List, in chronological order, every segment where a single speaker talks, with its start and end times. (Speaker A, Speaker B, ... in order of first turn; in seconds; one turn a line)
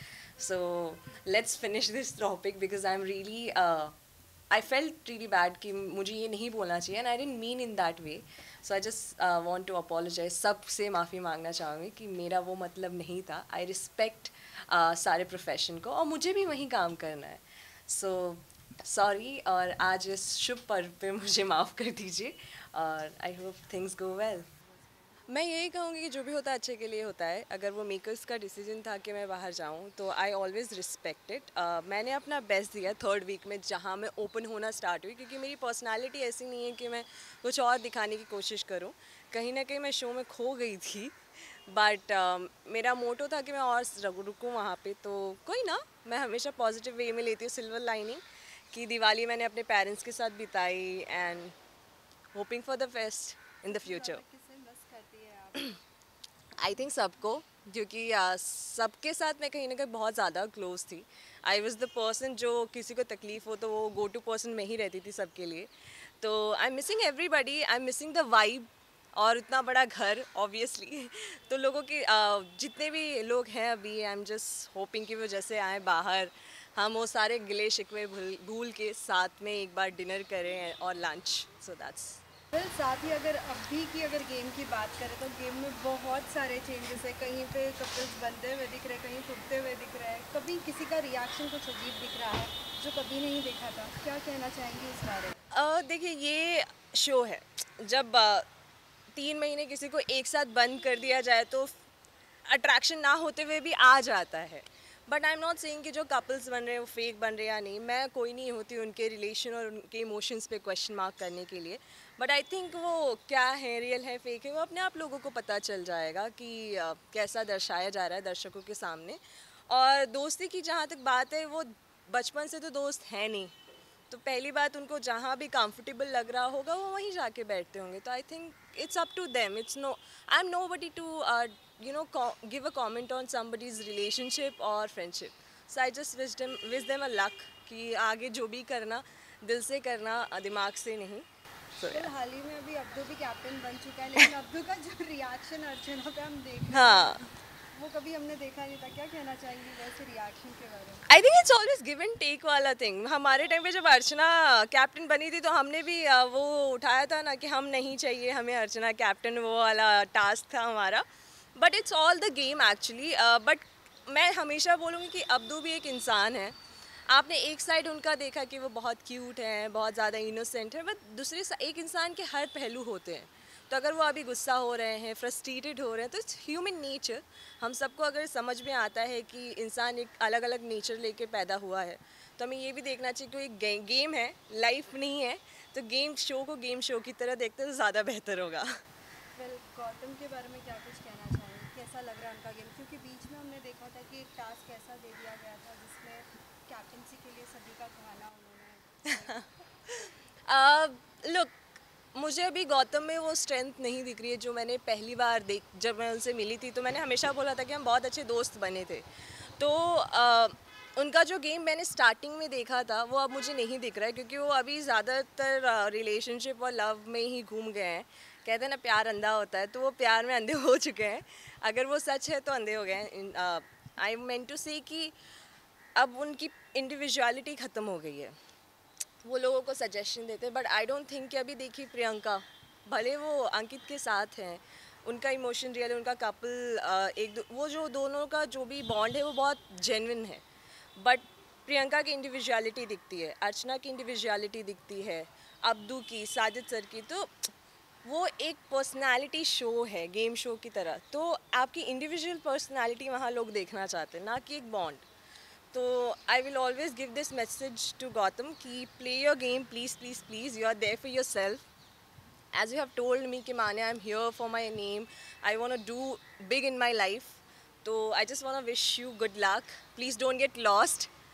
Speaker A: 0.4-4.0
Speaker A: 4.5-24.5
Speaker A: 25.3-41.2
Speaker A: 41.7-51.5
Speaker A: 52.3-54.2
Speaker B: 53.7-55.8
Speaker A: 56.6-82.2
Speaker B: 82.5-95.4
Speaker A: 95.5-98.5
Speaker A: 99.1-101.8
Speaker A: 102.5-123.5
Speaker A: 124.1-141.3
Speaker A: 141.8-142.1
Speaker B: 141.8-147.2
Speaker A: 146.7-147.3
Speaker B: 147.7-151.1
Speaker A: 151.1-161.1
Speaker A: 161.6-166.6
Speaker A: 167.1-188.7
Speaker B: 189.4-199.5
Speaker A: 200.0-201.6
Speaker A: 202.1-209.1
Speaker A: 209.6-225.1
Speaker A: 226.0-228.3
Speaker A: 229.2-240.4
Speaker A: 241.0-247.5
Speaker A: 248.0-255.1
Speaker A: 255.7-261.7
Speaker A: 262.5-271.1